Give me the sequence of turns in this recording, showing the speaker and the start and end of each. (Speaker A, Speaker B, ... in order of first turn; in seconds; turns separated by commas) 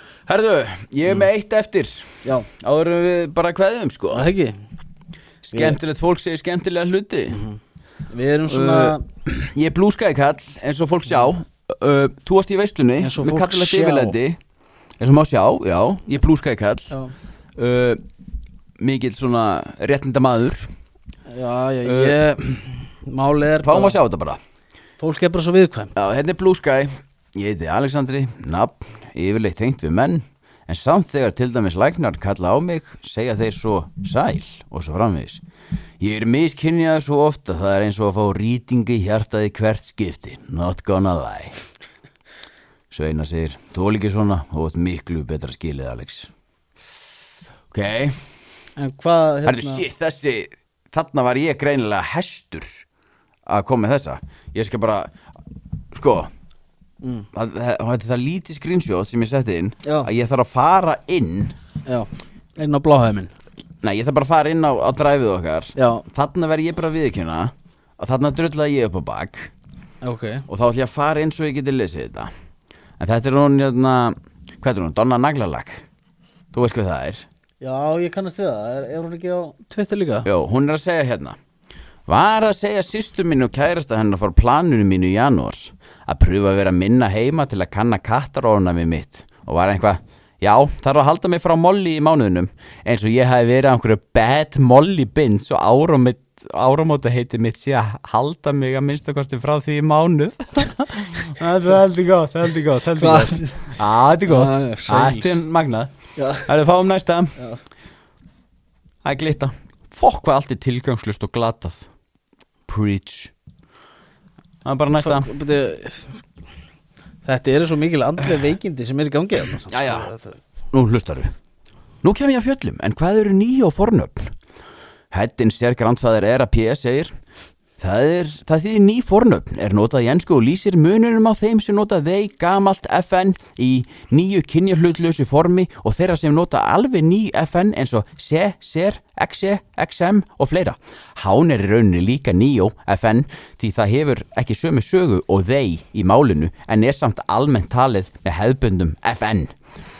Speaker A: 0.2-4.3, Speaker B: 4.1-4.5, Speaker A: 5.4-7.4, Speaker B: 7.3-9.0, Speaker A: 8.5-14.4, Speaker B: 13.0-14.1, Speaker A: 15.0-16.9, Speaker A: 17.6-18.0, Speaker A: 18.8-20.7, Speaker B: 21.3-24.0, Speaker A: 21.8-22.2, Speaker A: 23.6-24.4, Speaker B: 25.0-25.9, Speaker A: 25.9-35.4, Speaker A: 36.0-41.5, Speaker A: 42.9-46.3, Speaker A: 47.7-48.1, Speaker B: 48.8-49.8, Speaker A: 49.5-52.9, Speaker A: 53.5-55.1, Speaker A: 55.9-56.3, Speaker B: 57.0-57.3, Speaker A: 57.3-61.5, Speaker B: 61.9-63.3, Speaker A: 63.8-69.5, Speaker B: 65.8-66.0, Speaker B: 70.0-70.5, Speaker A: 70.5-72.3, Speaker A: 73.0-75.8, Speaker A: 76.5-77.2, Speaker B: 77.6-80.3, Speaker A: 80.2-81.4, Speaker A: 82.1-107.3, Speaker B: 102.9-103.7, Speaker B: 104.3-105.4, Speaker B: 106.2-106.5, Speaker A: 109.0-111.9, Speaker A: 112.7-113.3, Speaker A: 114.6-115.3, Speaker B: 115.0-116.2, Speaker B: 117.2-120.4, Speaker A: 119.7-120.1, Speaker A: 120.7-121.3, Speaker A: 122.0-124.3, Speaker A: 125.1-127.1, Speaker A: 127.8-149.5